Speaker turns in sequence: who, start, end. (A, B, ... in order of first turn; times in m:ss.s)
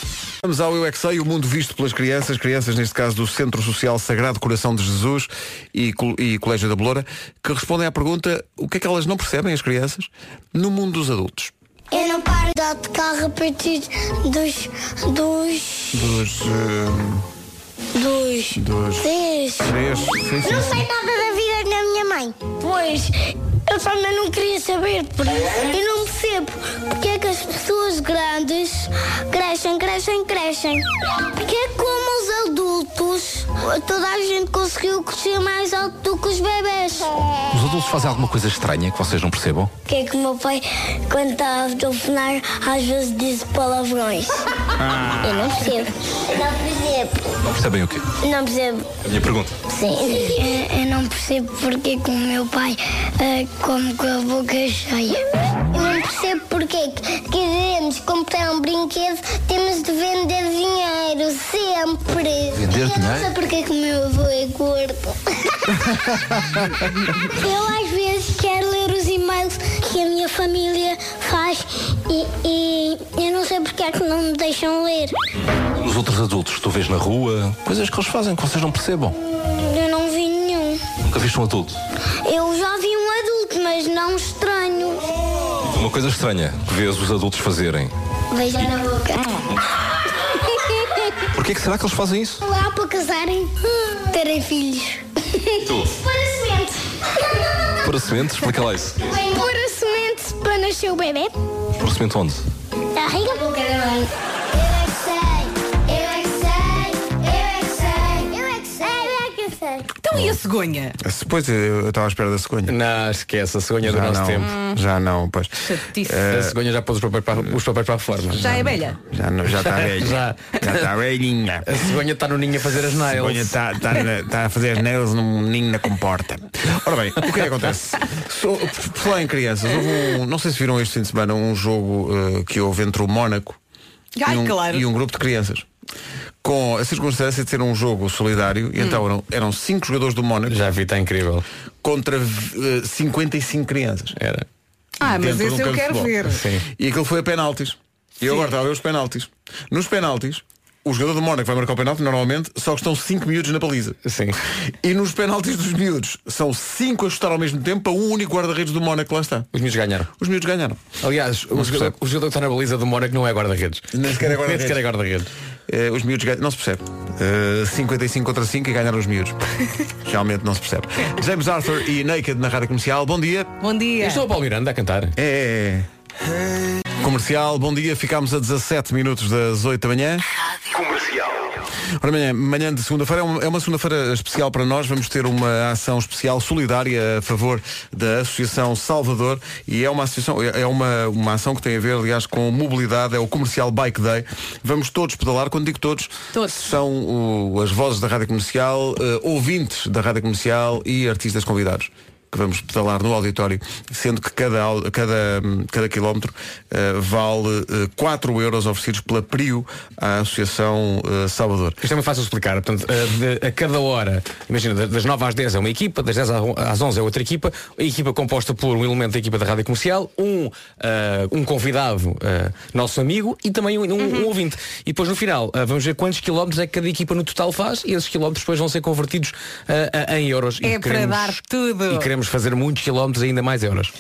0:00.4-0:11.5 A
0:11.9-0:16.1 B
0:15.9-0:17.2 A
0:18.0-0:19.8 B
0:18.6-0:20.8 A
0:20.4-0:30.8 B
0:31.4-0:37.3 B
0:37.5-0:39.7 C
0:39.9-0:44.4 B
0:45.0-0:47.3 B
0:47.5-0:48.0 C
0:48.2-0:48.9 B
0:49.0-0:49.5 C
0:49.7-0:55.2 B
0:55.7-1:06.2 B
1:02.6-1:03.3 C
1:07.2-1:15.1 B
1:15.8-1:19.2 C
1:19.5-1:20.8 B
1:21.0-1:21.8 C
1:22.2-1:25.0 B
1:25.7-1:27.9 C
1:28.3-1:29.4 B
1:30.5-1:31.0 B
1:31.4-1:32.4 C
1:32.4-1:41.3 B
1:37.8-1:39.0 C
1:41.8-1:42.4 C
1:43.0-1:49.9 B
1:50.0-1:51.0 D
1:50.1-1:50.4 A
1:51.0-1:52.8 A
1:52.7-1:54.5 E
1:53.8-1:56.6 A
1:54.5-1:54.8 D
1:55.6-1:56.2 D
1:56.2-1:58.7 E
1:58.4-2:01.9 A
1:58.4-1:59.0 D
1:59.5-2:00.8 E
2:01.6-2:03.6 E
2:02.9-2:13.6 A
2:14.2-2:14.9 D
2:14.2-2:15.6 A
2:16.4-2:20.6 A
2:20.5-2:21.4 E
2:21.8-2:24.2 A
2:24.2-2:24.5 E
2:25.0-2:26.4 D
2:25.0-2:34.0 A
2:26.2-2:26.6 E
2:34.0-2:34.4 E
2:34.8-2:39.5 A
2:39.5-2:40.1 E
2:40.2-2:40.8 A
2:41.0-2:45.3 E
2:41.5-2:41.9 A
2:43.9-2:44.9 A
2:45.7-2:49.4 A
2:50.0-2:53.5 A
2:53.6-2:54.2 D
2:54.0-2:55.1 E
2:55.2-2:55.9 A
2:57.0-3:00.2 A
3:02.0-3:31.8 A
3:31.8-3:53.9 E
3:44.0-3:44.3 D
3:50.6-3:52.1 D